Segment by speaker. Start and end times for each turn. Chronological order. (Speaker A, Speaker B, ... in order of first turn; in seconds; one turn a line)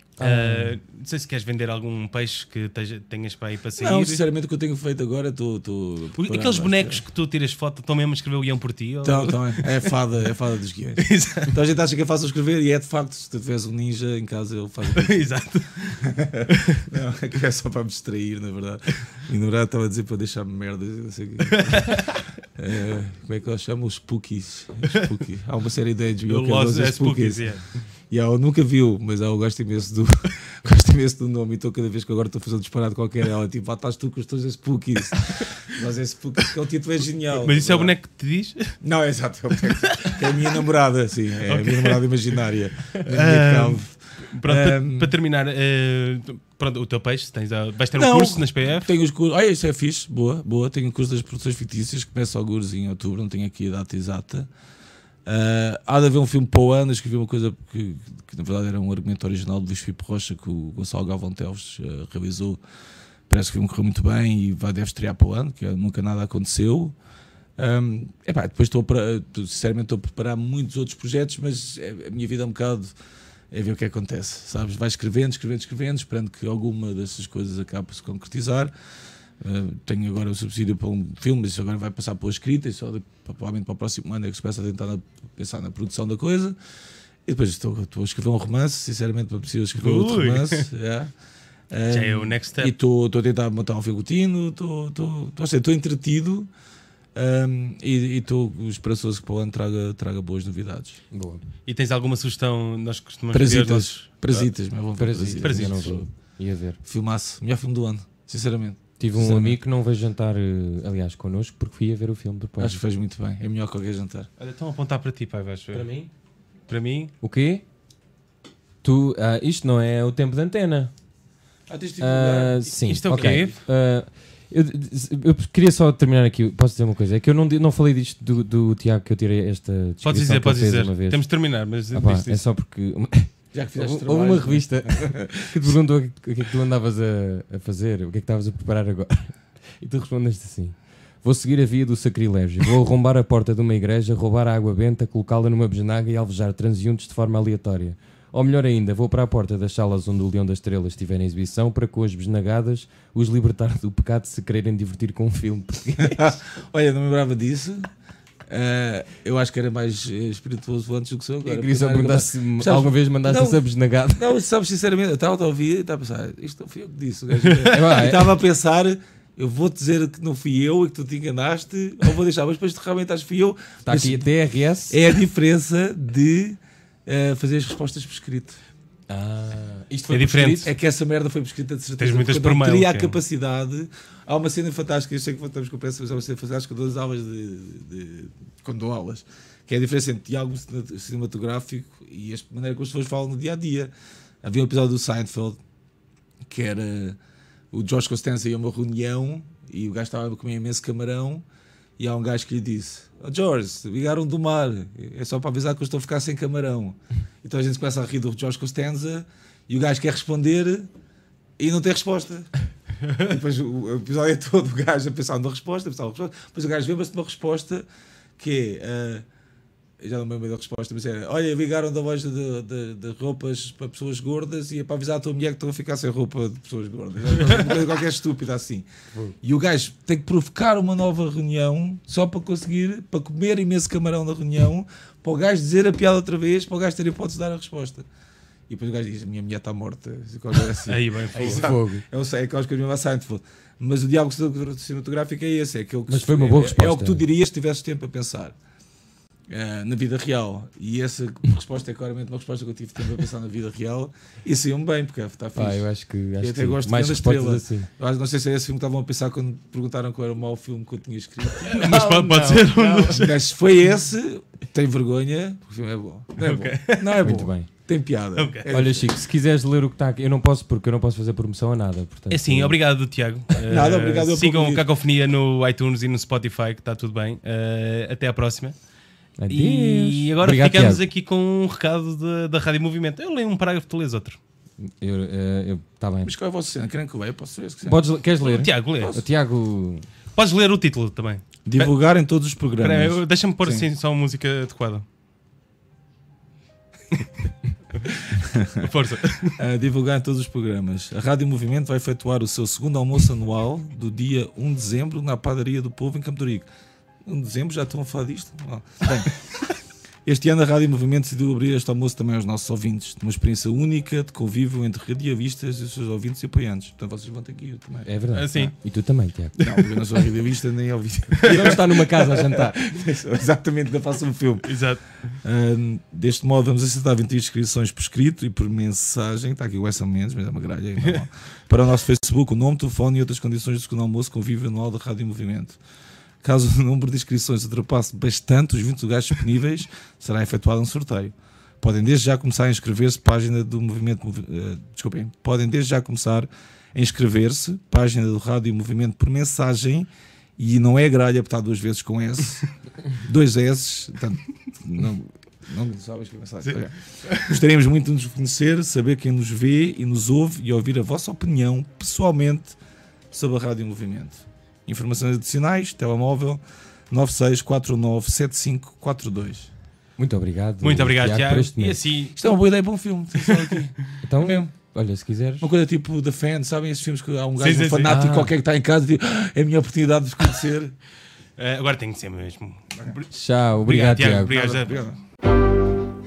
Speaker A: 0.2-0.8
Speaker B: 0.2-4.2
Speaker C: 3.8-7.0
Speaker B: 6.2-9.9
Speaker C: 9.0-15.3
Speaker B: 11.0-11.6
Speaker B: 14.8-16.8
Speaker C: 16.0-27.5
Speaker B: 21.5-22.2
Speaker B: 26.3-27.6
Speaker C: 28.1-38.0
Speaker B: 37.4-38.8
Speaker C: 38.8-45.1
Speaker B: 39.7-40.6
Speaker B: 41.4-42.4
Speaker B: 43.0-48.9
Speaker C: 48.0-54.5
Speaker C: 55.3-62.6
Speaker C: 63.3-67.0
Speaker C: 67.6-72.9
Speaker C: 73.5-78.7
Speaker C: 79.4-86.5
Speaker C: 87.3-91.1
Speaker B: 89.8-90.7
Speaker C: 91.7-96.5
Speaker B: 91.9-92.7
Speaker C: 97.1-101.0
Speaker A: 101.1-101.4
Speaker B: 101.7-104.5
Speaker C: 103.3-106.1
Speaker A: 105.0-106.8
Speaker B: 105.4-106.0
Speaker C: 106.8-109.6
Speaker A: 109.0-112.8
Speaker C: 112.6-114.3
Speaker B: 114.4-115.9
Speaker A: 115.7-116.1
Speaker B: 116.7-117.1
Speaker A: 117.2-117.6
Speaker A: 118.8-120.9
Speaker C: 121.7-122.8
Speaker A: 122.0-131.3
Speaker B: 122.8-123.6
Speaker B: 130.0-132.4
Speaker A: 131.9-156.3
Speaker C: 133.5-135.8
Speaker C: 156.0-157.9
Speaker C: 158.5-174.3
Speaker A: 161.4-164.3
Speaker B: 167.4-167.7
Speaker A: 167.7-168.3
Speaker A: 173.9-175.0
Speaker C: 174.9-178.6
Speaker A: 179.1-180.7
Speaker B: 180.1-180.7
Speaker C: 180.6-193.9
Speaker B: 182.0-183.2
Speaker C: 194.4-195.6
Speaker C: 196.5-197.2
Speaker C: 197.7-201.4
Speaker C: 202.0-210.9
Speaker C: 211.6-212.5
Speaker C: 213.2-217.8
Speaker C: 218.4-219.3
Speaker C: 220.0-228.9
Speaker C: 229.4-238.1
Speaker C: 238.7-248.6
Speaker B: 240.8-241.7
Speaker A: 241.4-242.0
Speaker A: 246.1-247.2
Speaker C: 249.5-255.9
Speaker A: 255.6-257.9
Speaker C: 256.4-269.2
Speaker B: 261.6-263.4
Speaker A: 261.7-263.2
Speaker B: 266.4-267.3
Speaker A: 267.2-267.7
Speaker B: 268.4-268.7
Speaker A: 268.7-272.8
Speaker B: 272.3-278.8
Speaker C: 273.7-274.8
Speaker A: 279.4-281.1
Speaker B: 279.5-284.4
Speaker A: 284.8-286.3
Speaker C: 286.2-289.2
Speaker A: 287.9-290.1
Speaker B: 288.4-289.2
Speaker B: 290.3-291.9
Speaker C: 291.7-293.9
Speaker B: 292.8-295.1
Speaker C: 298.1-298.9
Speaker B: 298.7-299.6
Speaker C: 299.6-306.7
Speaker C: 307.2-309.3
Speaker C: 310.2-318.1
Speaker A: 318.1-319.8
Speaker B: 318.3-318.7
Speaker C: 319.6-324.8
Speaker B: 321.4-321.7
Speaker A: 321.4-322.8
Speaker B: 324.6-325.2
Speaker C: 325.4-335.8
Speaker C: 336.4-362.8
Speaker B: 357.2-357.6
Speaker C: 363.3-369.7
Speaker A: 370.2-372.0
Speaker B: 370.8-372.4
Speaker C: 372.4-374.7
Speaker B: 373.4-373.9
Speaker A: 374.2-375.7
Speaker C: 375.6-380.9
Speaker B: 377.6-378.1
Speaker A: 378.1-378.5
Speaker B: 381.6-383.3
Speaker A: 383.3-384.5
Speaker B: 383.8-385.0
Speaker C: 384.5-385.2